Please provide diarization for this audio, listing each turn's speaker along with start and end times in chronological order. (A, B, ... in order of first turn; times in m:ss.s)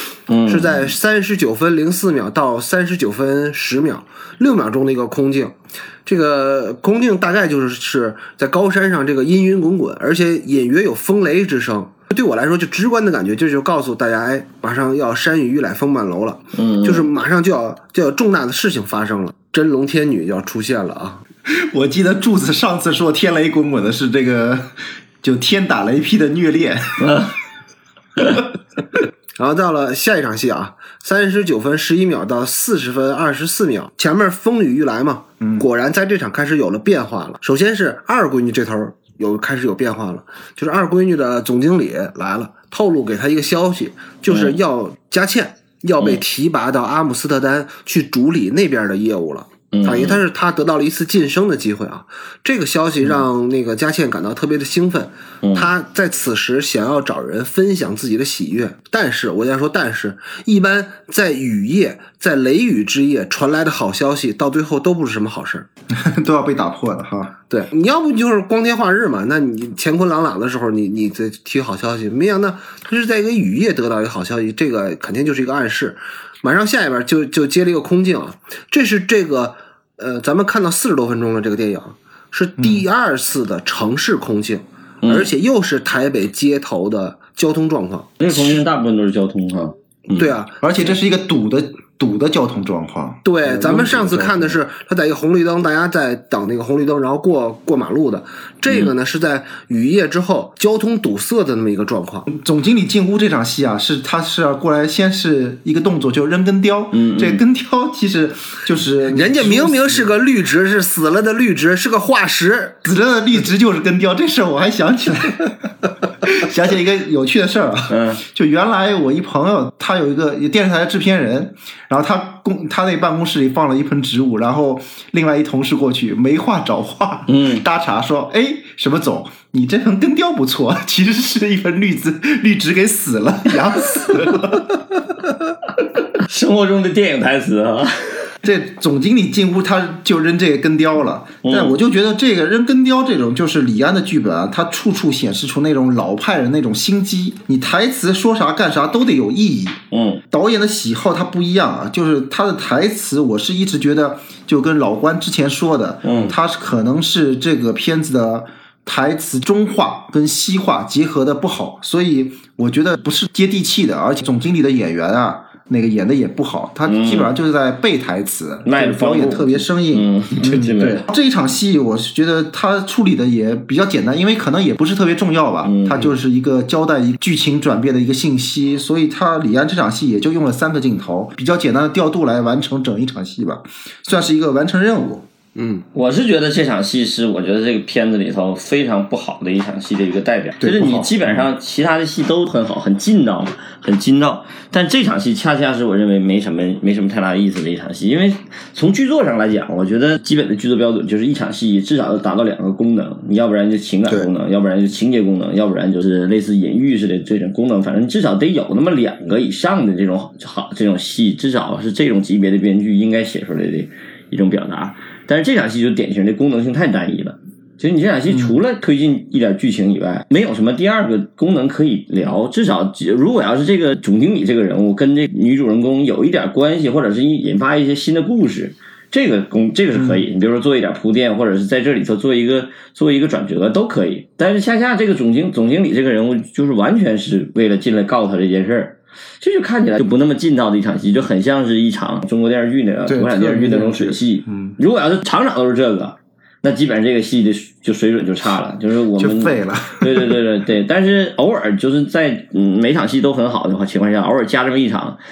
0:00.3-0:00.8 A
0:00.5-0:21.2 B
0:16.6-0:17.0 A
0:21.4-0:27.2 C
0:27.0-0:27.3 A
0:29.4-1:05.7 B
0:44.3-0:44.6 A
0:49.7-0:50.2 A
1:05.9-1:07.3 C
1:07.5-1:28.4 B
1:22.6-1:22.8 C
1:25.0-1:25.3 A
1:28.2-1:30.3 A
1:30.1-1:30.7 B
1:30.6-1:34.6 C
1:33.2-1:42.3 B
1:42.3-1:50.1 C
1:46.9-1:47.4 A
1:49.1-1:52.8 B
1:52.8-1:55.7 C
1:56.2-2:15.2 C
1:57.9-1:58.2 A
2:07.3-2:07.6 A
2:16.2-2:18.3 A
2:18.4-2:29.8 C
2:21.4-2:21.8 A
2:29.9-2:30.2 A
2:30.3-3:05.3 C
2:36.0-2:36.4 A
2:46.8-2:47.3 A
2:48.6-2:51.1 A
2:55.6-2:56.1 A
3:05.5-3:05.8 B
3:05.9-4:15.2 A
3:10.6-3:11.4 C
3:38.3-3:38.6 C
3:49.9-3:50.2 C
4:03.1-4:04.8 C
4:09.2-4:10.4 C